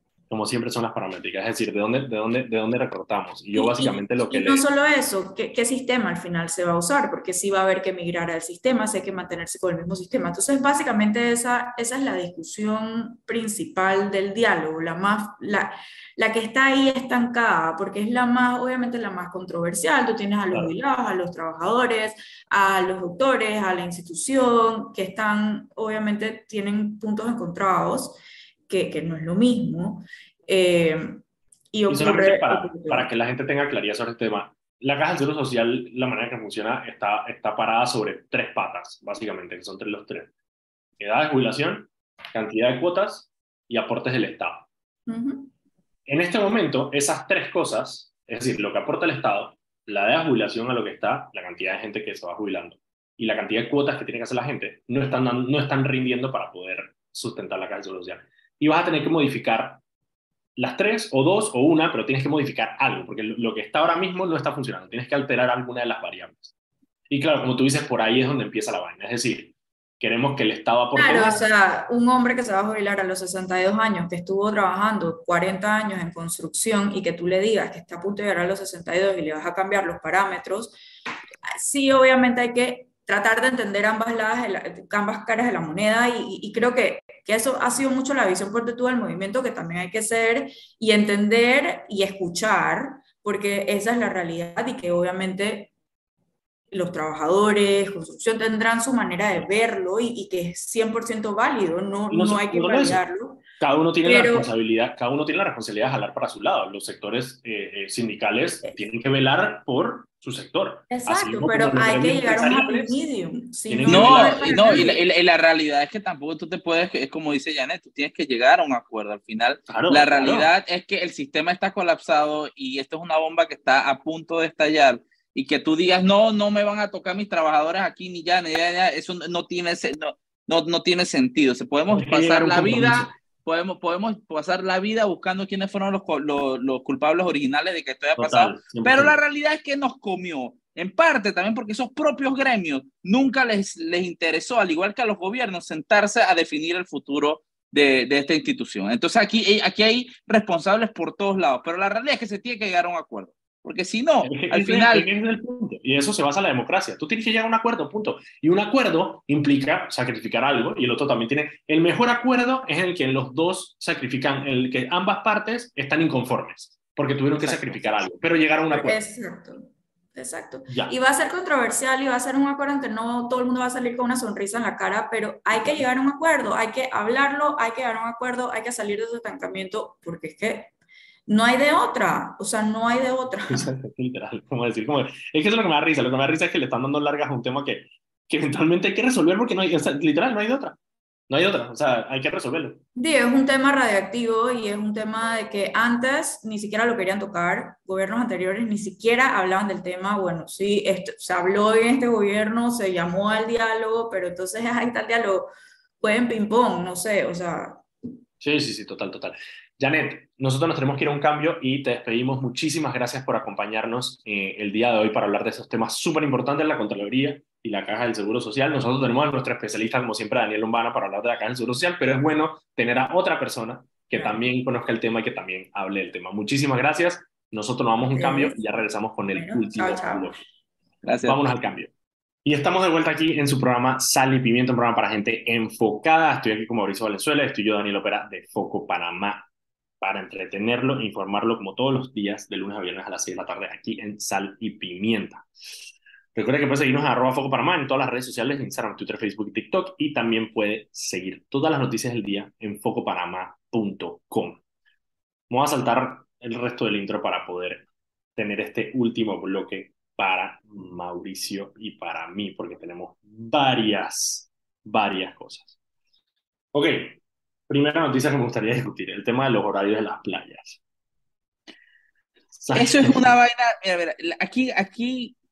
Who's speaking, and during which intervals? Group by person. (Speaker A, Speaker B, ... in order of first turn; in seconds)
Speaker A: 0.3-4.6, 31.9-40.3, 41.0-44.6, 46.1-59.8, 60.5-66.5, 67.1-71.4, 102.1-103.0, 103.6-113.0, 113.7-115.0, 119.7-120.5, 131.9-133.1, 138.2-139.2, 154.2-169.0, 170.7-170.9, 183.5-190.8, 191.3-192.8, 208.4-230.4, 231.2-231.9, 232.4-239.5, 240.0-245.5, 246.3-254.6, 255.5-265.7, 266.7-270.8, 272.6-273.3
Speaker B: 3.5-31.2, 31.7-33.1, 45.1-45.5, 70.9-80.8, 81.5-95.7, 96.7-103.4, 104.0-104.5, 110.9-115.0, 167.4-167.8, 168.7-180.7, 181.3-183.7, 192.9-205.5, 206.0-207.8, 224.1-224.4, 228.1-228.6, 229.3-230.3
Speaker C: 113.9-155.1, 231.0-231.4, 272.7-275.4